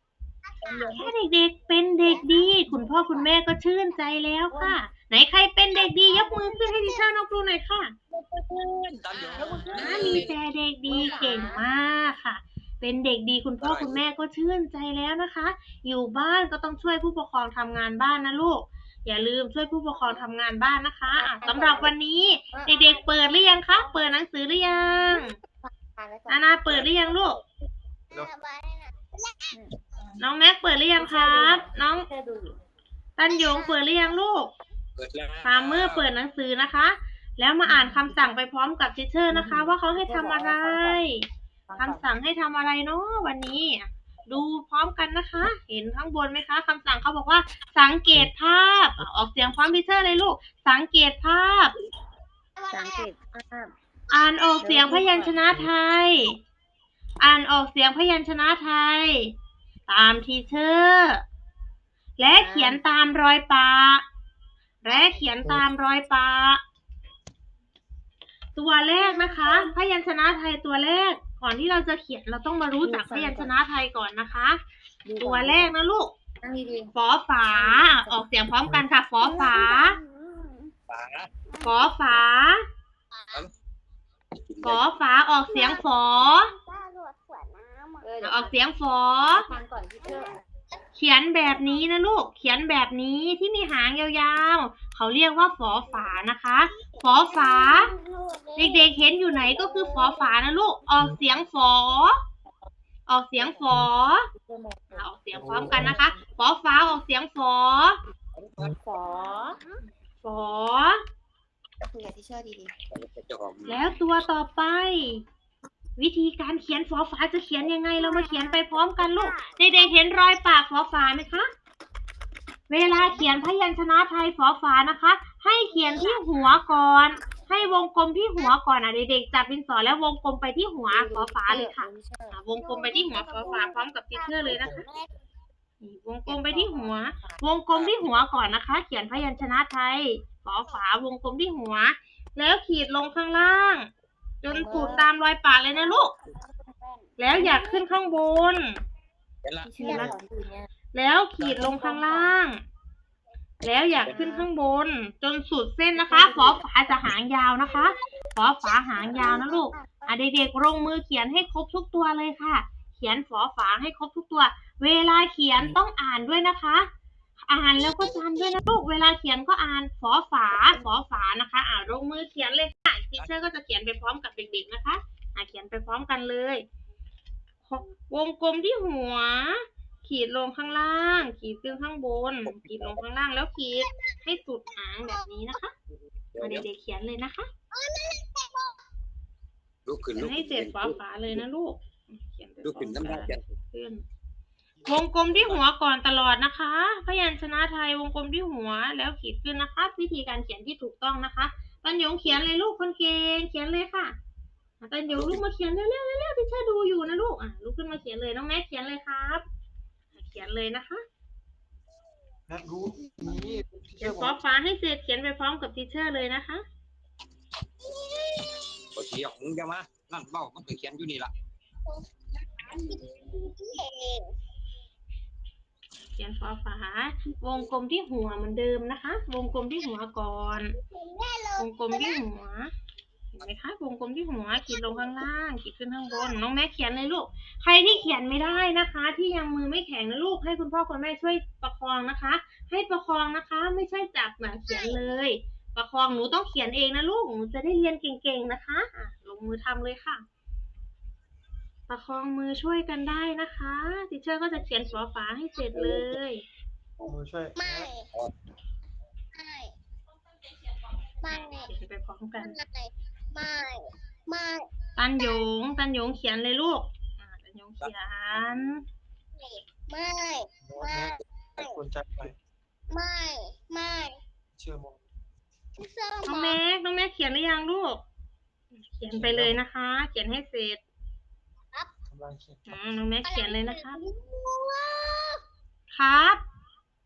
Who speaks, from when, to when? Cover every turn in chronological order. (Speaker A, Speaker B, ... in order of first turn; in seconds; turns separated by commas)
Speaker A: 0.5-1.0, Speaker B: 0.9-7.9, Speaker A: 2.1-2.4, Speaker C: 2.7-3.3, Speaker C: 4.5-4.8, Speaker A: 5.8-7.1, Speaker D: 8.1-10.3, Speaker C: 9.3-10.2, Speaker B: 9.4-25.3, Speaker C: 10.8-11.7, Speaker A: 11.0-11.5, Speaker D: 13.6-14.0, Speaker C: 19.9-20.2, Speaker C: 21.1-21.9, Speaker C: 22.5-22.8, Speaker A: 22.8-23.9, Speaker C: 25.6-26.5, Speaker B: 26.3-27.4, Speaker D: 26.7-27.4, Speaker A: 28.1-29.5, Speaker B: 30.2-32.1, Speaker C: 31.0-32.6, Speaker B: 33.2-34.5, Speaker A: 33.3-33.9, Speaker D: 35.0-36.0, Speaker B: 35.4-41.2, Speaker C: 37.6-38.3, Speaker C: 39.3-41.0, Speaker C: 41.7-42.1, Speaker B: 41.8-51.7, Speaker A: 52.6-53.0, Speaker C: 52.7-53.7, Speaker B: 54.1-56.4, Speaker C: 54.6-55.4, Speaker B: 57.2-59.3, Speaker B: 59.9-61.2, Speaker B: 62.2-64.0, Speaker C: 62.3-62.8, Speaker B: 64.8-66.6, Speaker A: 64.9-65.4, Speaker B: 68.5-74.6, Speaker A: 69.0-69.7, Speaker C: 72.8-73.5, Speaker C: 75.0-75.8, Speaker B: 75.2-76.1, Speaker C: 76.4-76.9, Speaker B: 76.9-80.0, Speaker C: 77.5-78.3, Speaker A: 79.2-80.7, Speaker D: 80.9-81.3, Speaker A: 81.5-81.9, Speaker B: 81.6-82.6, Speaker A: 83.1-83.5, Speaker D: 84.4-84.8, Speaker B: 84.6-86.5, Speaker A: 85.5-88.1, Speaker C: 88.0-88.6, Speaker B: 88.2-89.5, Speaker C: 89.3-90.4, Speaker A: 90.0-90.8, Speaker B: 91.0-97.9, Speaker A: 91.5-91.9, Speaker A: 95.9-96.2, Speaker A: 96.7-100.3, Speaker B: 98.6-102.2, Speaker B: 103.1-104.2, Speaker C: 103.4-105.1, Speaker B: 104.9-108.0, Speaker E: 105.3-106.1, Speaker D: 108.4-108.8, Speaker C: 108.8-109.6, Speaker A: 109.1-109.8, Speaker B: 110.2-111.0, Speaker C: 111.8-112.7, Speaker D: 112.9-113.9, Speaker B: 113.7-115.2, Speaker B: 116.0-121.5, Speaker A: 118.0-120.0, Speaker B: 122.7-134.9, Speaker C: 122.9-123.3, Speaker A: 125.8-127.3, Speaker C: 130.9-132.4, Speaker A: 132.6-135.2, Speaker B: 135.8-143.9, Speaker C: 136.3-137.4, Speaker B: 144.4-146.1, Speaker C: 144.5-145.1, Speaker C: 146.3-147.8, Speaker B: 147.2-148.8, Speaker D: 149.4-150.2, Speaker C: 149.6-150.7, Speaker A: 149.8-150.2, Speaker B: 150.9-152.6, Speaker D: 151.4-151.7, Speaker C: 151.6-152.4, Speaker B: 153.6-166.9, Speaker D: 154.0-154.3, Speaker C: 154.1-154.5, Speaker C: 155.9-157.0, Speaker A: 159.0-160.7, Speaker B: 167.5-176.6, Speaker A: 167.8-168.5, Speaker B: 177.7-185.7, Speaker D: 182.5-182.9, Speaker A: 183.8-184.2, Speaker D: 186.3-186.7, Speaker B: 186.4-187.5, Speaker A: 187.7-188.8, Speaker D: 189.9-191.4, Speaker B: 190.2-194.1, Speaker D: 192.6-193.4, Speaker B: 194.8-204.2, Speaker D: 195.3-195.6, Speaker B: 204.8-209.4, Speaker D: 205.1-205.4, Speaker B: 210.2-211.0, Speaker E: 212.5-214.4, Speaker A: 213.1-213.4, Speaker B: 214.0-216.6, Speaker A: 217.8-218.8, Speaker D: 218.9-221.3, Speaker A: 222.6-224.3, Speaker B: 226.2-230.8, Speaker A: 230.8-232.2, Speaker B: 231.6-232.7, Speaker B: 233.3-250.2, Speaker A: 234.6-235.3, Speaker A: 236.1-236.4, Speaker A: 244.7-245.0, Speaker B: 251.9-256.4, Speaker A: 254.6-255.0, Speaker A: 255.6-255.8, Speaker A: 257.0-258.1, Speaker E: 257.0-257.9, Speaker A: 259.4-259.7, Speaker A: 261.2-261.7, Speaker B: 261.6-262.6, Speaker A: 262.4-265.4, Speaker B: 265.0-268.8, Speaker A: 269.4-271.8, Speaker E: 270.6-272.4, Speaker A: 272.9-274.2, Speaker E: 274.6-275.0, Speaker A: 275.8-276.6, Speaker B: 276.3-278.0, Speaker B: 278.8-280.8, Speaker E: 279.1-279.6, Speaker E: 282.1-282.8, Speaker B: 282.7-284.0, Speaker A: 283.2-285.4, Speaker B: 285.9-286.4